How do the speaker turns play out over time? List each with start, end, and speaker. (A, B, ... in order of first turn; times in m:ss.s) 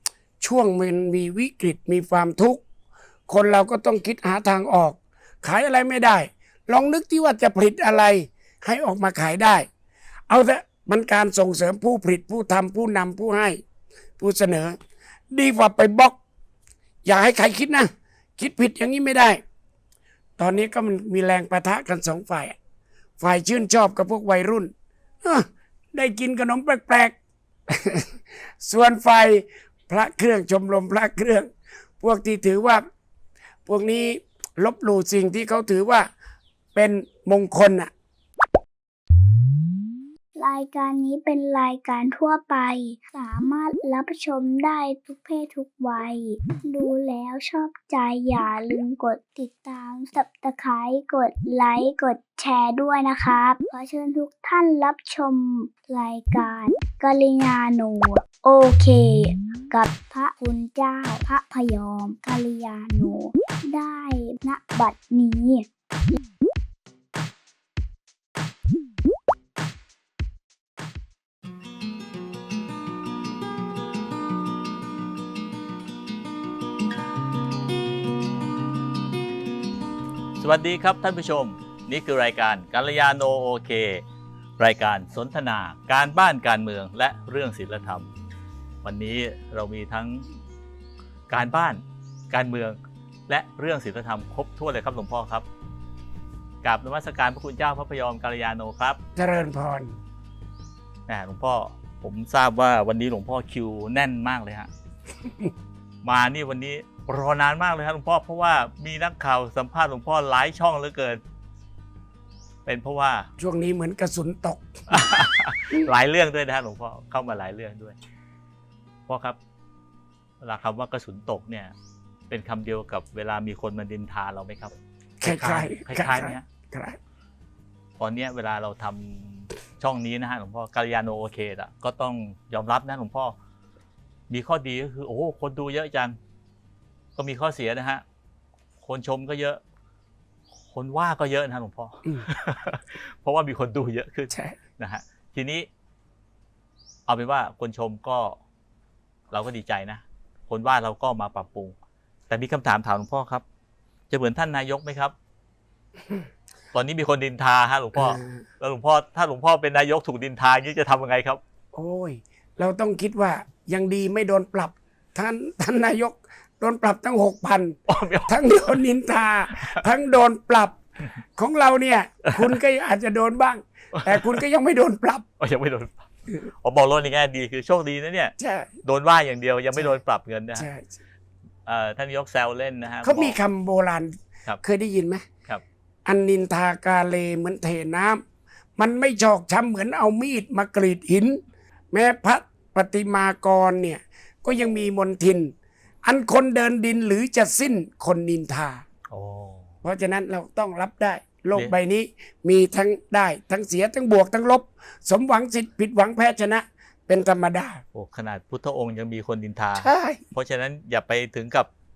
0:00.4-0:02.6 A
0:03.3-0:09.7 A
0:10.3-0:13.6 A
0:14.2-0:14.8 A
0:15.3-0:16.2 A
0:17.0-0:19.4 A
0:20.4-0:22.6 A
0:23.2-0:27.2 A
0:27.7-0:31.5 A
0:32.0-0:32.8 A
0:33.6-0:36.1 A
0:36.7-0:37.9 A
0:40.4-1:06.1 B
1:20.4-1:24.0 C
1:24.6-1:28.1 C
1:28.8-1:30.2 C
1:31.3-1:35.4 C
1:36.6-1:39.0 C
1:39.2-1:39.9 A
1:41.1-1:44.7 C
1:45.2-1:45.5 A
1:46.0-1:51.2 C
1:52.6-1:53.3 C
1:53.4-1:55.1 A
1:54.9-1:58.0 C
1:59.1-1:59.4 C
2:00.4-2:01.7 C
2:02.3-2:06.4 C
2:05.2-2:07.0 A
2:08.0-2:13.4 C
2:14.3-2:16.2 C
2:17.2-2:18.0 C
2:18.8-2:19.6 C
2:20.7-2:25.7 C
2:24.3-2:24.6 A
2:27.0-2:28.4 C
2:29.3-2:31.8 C
2:32.3-2:33.4 C
2:34.1-2:35.1 C
2:36.7-2:41.4 C
2:38.0-2:38.4 A
2:41.7-2:50.8 A
2:47.9-2:48.8 C
2:49.6-2:49.8 C
2:51.4-2:55.2 A
2:54.0-2:54.3 C
2:55.4-2:56.1 C
2:56.6-3:00.7 C
2:58.4-2:58.7 A
3:00.5-3:00.9 A
3:01.6-3:03.4 C
3:03.0-3:05.2 A
3:06.0-3:08.2 A
3:08.8-3:11.4 A
3:11.9-3:15.5 A
3:16.0-3:18.8 A
3:19.1-3:19.7 C
3:19.8-3:27.8 A
3:27.9-3:31.7 C
3:29.8-3:30.2 A